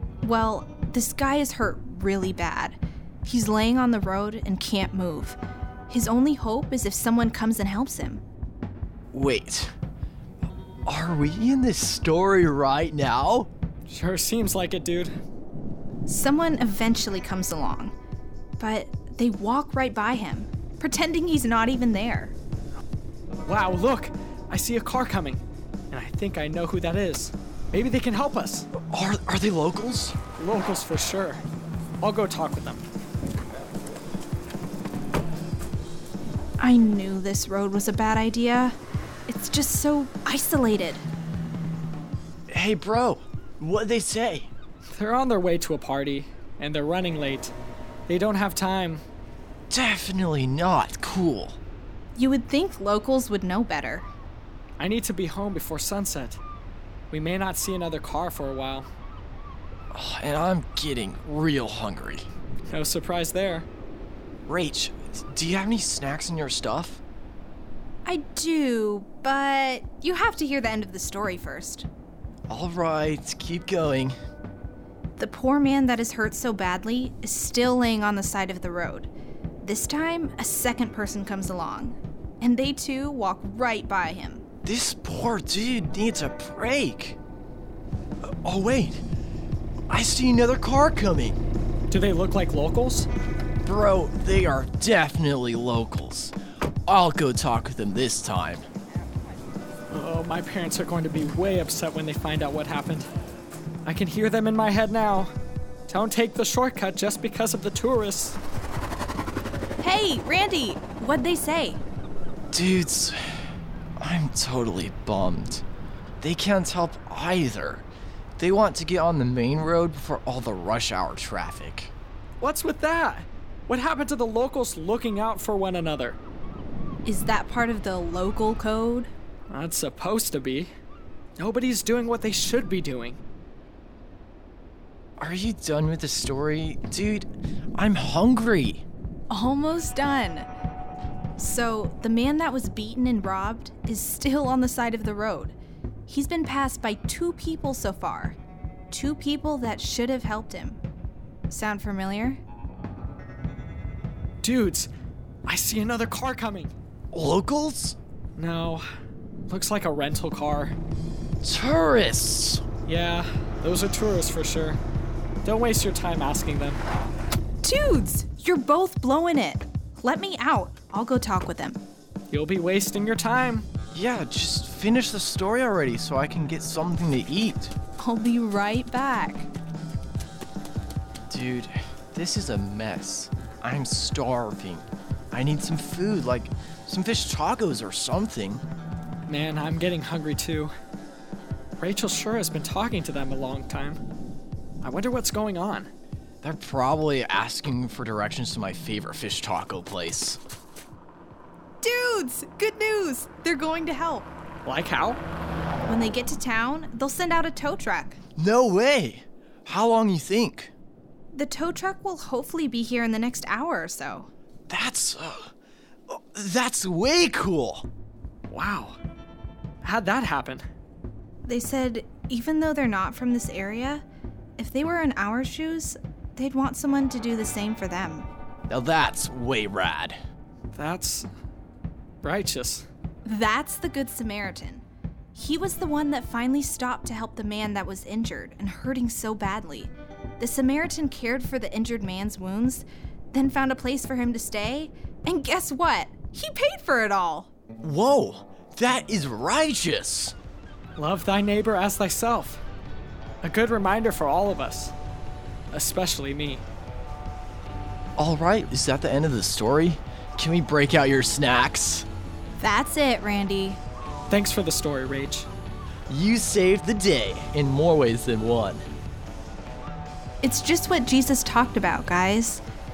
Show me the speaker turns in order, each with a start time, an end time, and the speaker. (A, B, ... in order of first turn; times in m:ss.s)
0:00.2-0:08.2 A
0:09.1-0:09.7 B
0:10.9-0:13.5 B
0:13.9-0:15.1 C
0:16.1-0:17.9 A
0:18.6-0:22.3 A
0:23.4-0:28.7 C
0:28.8-0:30.2 B
0:30.4-0:31.4 C
0:32.0-0:32.8 C
0:36.6-0:38.8 A
0:39.3-0:41.0 A
0:42.5-0:44.5 B
0:44.9-0:47.5 C
0:48.1-0:49.0 C
0:49.7-0:51.6 B
0:52.2-0:54.1 A
0:54.8-0:56.4 C
0:57.1-0:58.9 C
0:59.9-1:02.3 B
1:02.7-1:03.7 C
1:04.5-1:07.0 B
1:08.0-1:11.9 A
1:12.5-1:14.1 B
1:15.2-1:19.1 A
1:19.6-1:24.4 A
1:24.6-1:27.2 B
1:28.2-1:29.0 B
1:29.9-1:31.4 B
1:31.9-1:33.1 C
1:33.6-1:36.3 B
1:36.9-1:38.6 B
1:39.9-1:43.1 C
1:43.8-1:45.3 C
1:45.9-1:48.4 C
1:49.8-1:51.8 A
1:52.5-1:53.3 B
1:54.0-1:55.6 B
1:56.2-1:57.8 B
1:58.4-2:01.9 B
2:02.4-2:06.2 C
2:07.0-2:09.1 A
2:09.5-2:10.7 C
2:11.4-2:13.2 C
2:15.2-2:18.8 B
2:19.3-2:20.5 A
2:21.4-2:25.5 A
2:26.1-2:28.4 A
2:28.9-2:30.8 A
2:31.5-2:32.4 A
2:34.4-2:34.9 C
2:35.5-2:36.7 C
2:37.1-2:38.0 B
2:38.4-2:38.8 C
2:39.5-2:40.8 C
2:41.4-2:42.6 B
2:42.8-2:44.8 C
2:45.4-2:46.8 C
2:47.6-2:51.8 A
2:52.3-2:53.6 C
2:53.9-2:57.7 B
2:58.0-2:59.5 A
3:01.3-3:08.6 B
3:09.3-3:10.7 C
3:11.8-3:14.0 C
3:14.8-3:15.9 C
3:16.4-3:20.4 B
3:21.8-3:24.3 A
3:24.6-3:25.2 C
3:25.8-3:28.2 A
3:28.4-3:30.7 B
3:31.3-3:34.3 A
3:34.7-3:35.5 B
3:36.1-3:37.8 B
3:38.5-3:39.0 C
3:39.8-3:40.6 C
3:41.4-3:44.0 A
3:44.6-3:48.3 A
3:48.7-3:50.2 B
3:50.7-3:51.3 C
3:52.2-3:52.8 C
3:53.2-3:54.8 A
3:55.3-4:07.5 A
4:07.8-4:10.3 B
4:11.0-4:12.6 C
4:13.4-4:14.9 C
4:15.7-4:16.6 C
4:18.2-4:22.0 B
4:22.6-4:23.8 A
4:24.3-4:25.5 C
4:26.1-4:28.8 B
4:30.4-4:32.6 A